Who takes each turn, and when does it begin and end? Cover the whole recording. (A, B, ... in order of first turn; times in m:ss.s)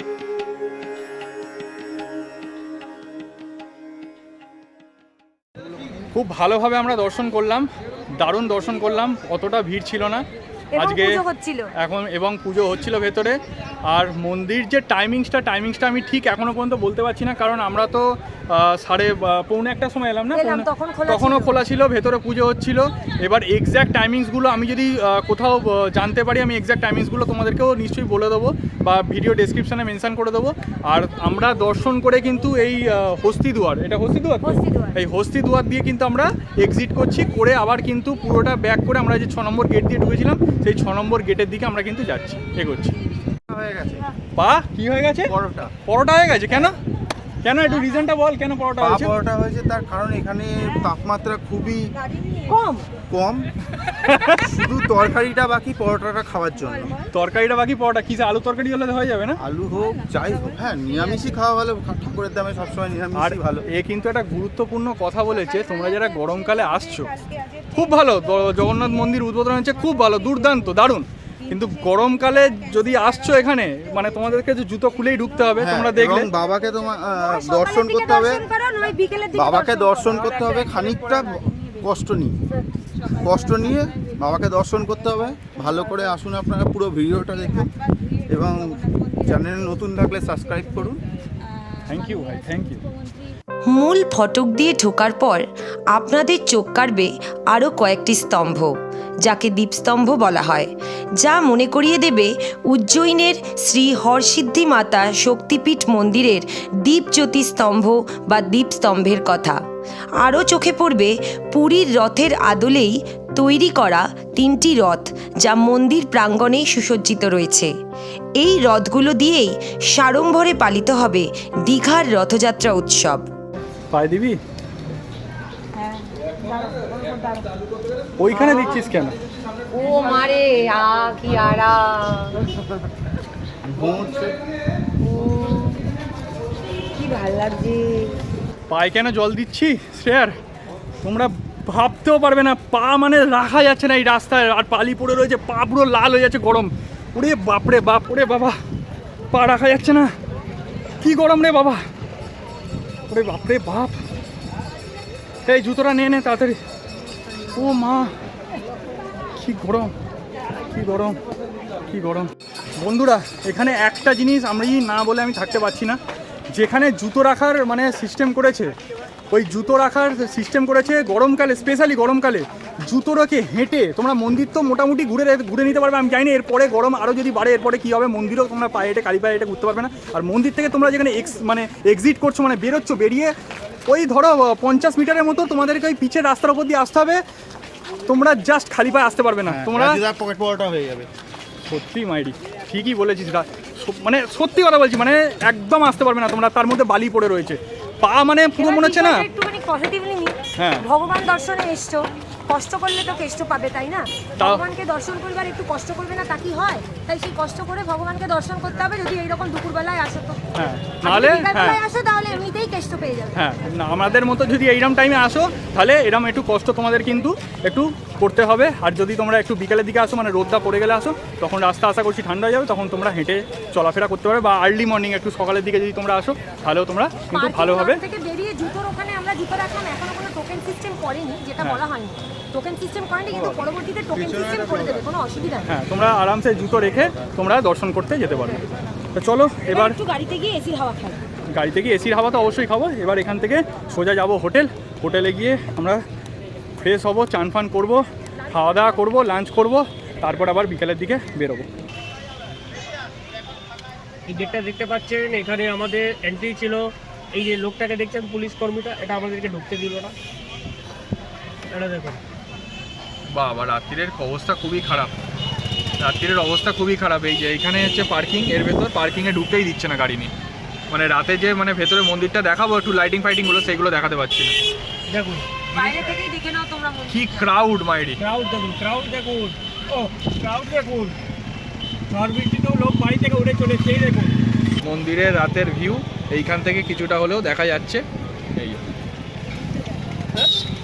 0:06.1-0:10.2 A
0:10.7-0:11.7 B
0:10.8-0:11.2 A
0:11.8-0:43.0 A
0:20.3-0:21.6 B
0:34.4-0:35.0 B
0:43.5-0:44.1 C
0:44.4-0:46.8 A
0:45.2-0:45.7 C
0:47.4-0:49.2 A
0:48.8-0:51.9 C
0:52.5-0:52.9 B
0:53.1-0:53.5 C
0:54.0-0:54.5 A
0:54.4-0:57.0 C
0:57.1-0:59.4 A
0:59.4-1:03.7 C
1:03.2-1:07.2 A
1:07.7-1:16.3 A
1:15.6-1:18.4 C
1:17.3-1:20.4 B
1:19.3-1:22.4 C
1:23.1-1:27.7 C
1:28.3-1:31.0 C
1:31.8-1:32.8 A
1:33.7-1:49.6 D
1:50.2-1:57.7 D
1:58.4-2:03.3 D
2:03.9-2:04.4 A
2:08.2-2:09.2 A
2:08.3-2:08.8 B
2:09.7-2:12.5 B
2:13.6-2:14.4 C
2:15.0-2:15.9 B
2:16.9-2:18.1 B
2:18.7-2:20.3 A
2:21.0-2:28.6 A
2:29.3-2:30.1 A
2:31.0-2:31.8 A
2:33.1-2:34.0 A
2:35.5-2:36.6 A
2:37.6-2:38.1 A
2:39.4-2:39.9 A
2:40.7-2:41.2 A
2:41.9-2:46.0 A
2:46.5-2:48.7 A
2:49.3-3:03.3 A
3:03.8-3:07.2 A
3:08.1-3:10.0 A
3:09.5-3:11.1 C
3:11.7-3:19.2 A
3:18.6-3:30.4 B
3:20.6-3:20.8 A
3:30.5-3:31.8 A
3:31.0-3:33.4 B
3:33.3-3:48.0 A
3:47.3-3:55.7 B
3:53.3-3:53.6 A
3:54.1-3:55.0 C
3:55.7-4:00.0 A
3:59.6-4:01.2 B
4:01.5-4:06.0 A
4:06.8-4:11.7 A
4:14.3-4:20.1 E
4:21.7-4:22.2 E
4:23.3-4:25.2 A
4:26.0-4:30.3 A
4:30.9-4:34.5 A
4:35.1-4:36.2 E
4:35.7-4:37.5 B
4:37.1-4:38.2 A
4:38.2-4:41.2 E
4:42.1-4:44.3 E
4:44.8-4:48.0 A